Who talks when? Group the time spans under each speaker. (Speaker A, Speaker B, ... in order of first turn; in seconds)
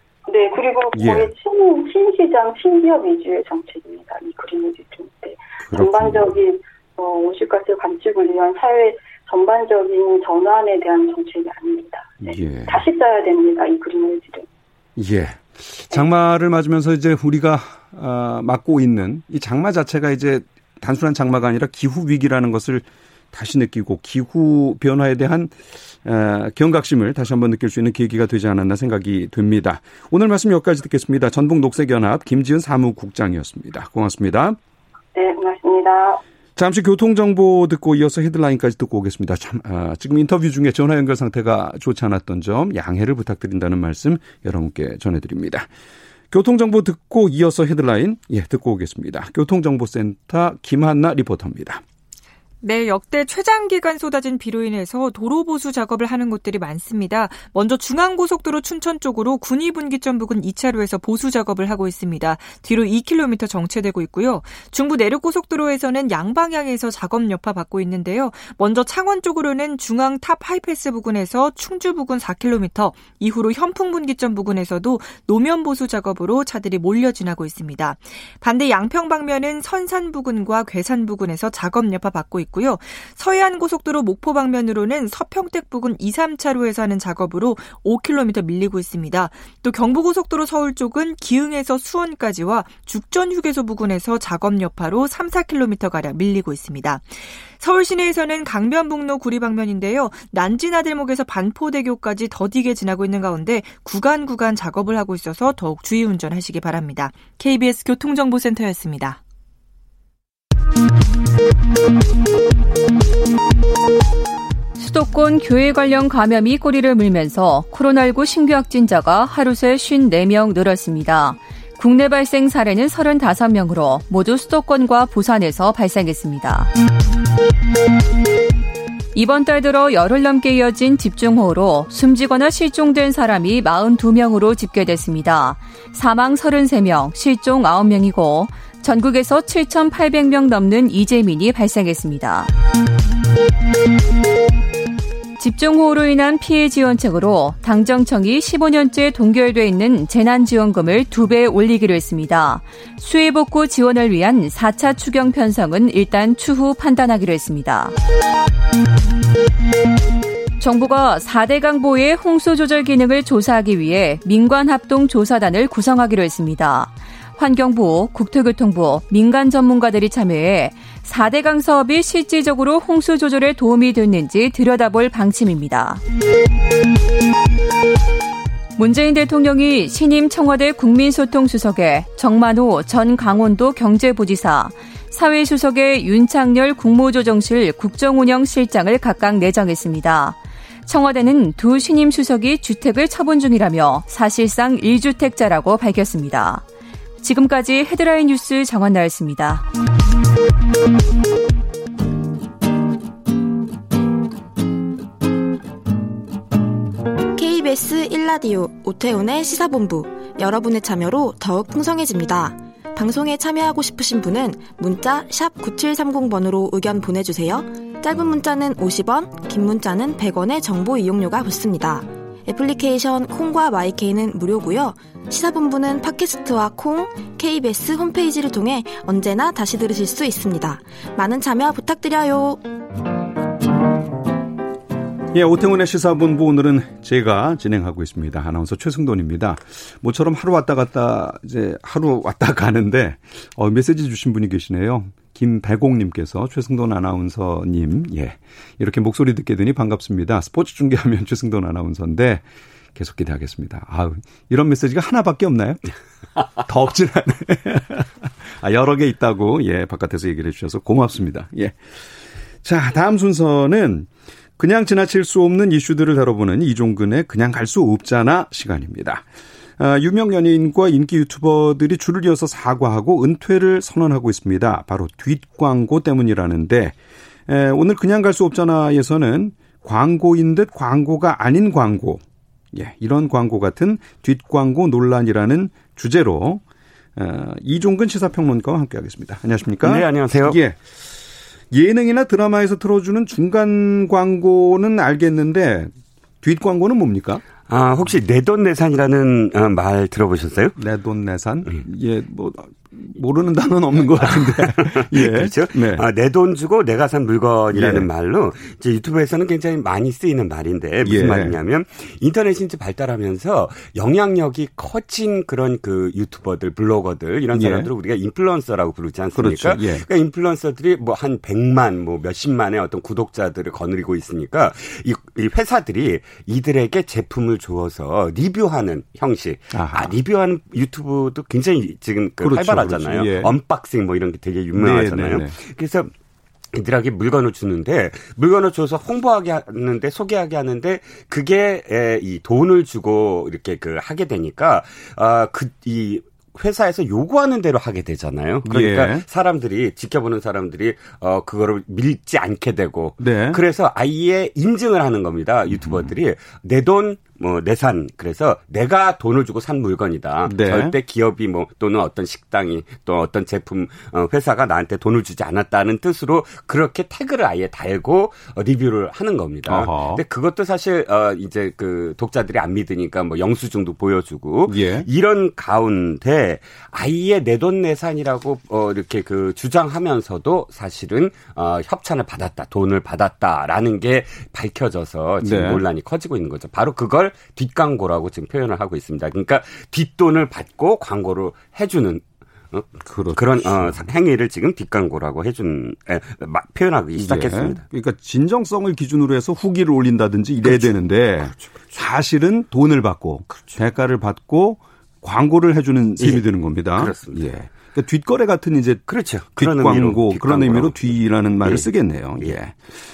Speaker A: 0.3-14.5, 35.1-36.2
Speaker B: 0.9-1.3, 5.7-6.3, 12.2-12.8, 15.0-34.6, 36.6-45.7, 46.3-51.8, 235.3-252.4, 252.9-255.8, 256.6-261.8, 262.6-269.2, 269.8-276.9, 277.5-286.6, 287.2-290.8, 291.7-297.4, 300.8-306.1, 307.7-308.1, 311.0-311.6, 317.5-317.9, 319.4-320.1, 329.7-330.1, 332.4-333.5, 334.8-335.6, 348.6-349.2, 353.2-353.6, 355.8-356.1, 360.5-360.9, 369.7-370.2, 374.7-375.1, 385.4-385.8, 393.0-394.0, 397.2-412.8
Speaker C: 52.6-109.2
Speaker D: 114.8-126.7, 129.1-142.5, 145.4-157.9, 160.6-176.0, 178.8-196.7, 197.2-199.7
Speaker E: 207.3-232.6
Speaker F: 289.8-290.6, 297.7-300.8, 304.4-336.1, 336.7-397.8, 400.6-401.8, 406.9-407.5, 409.1-411.9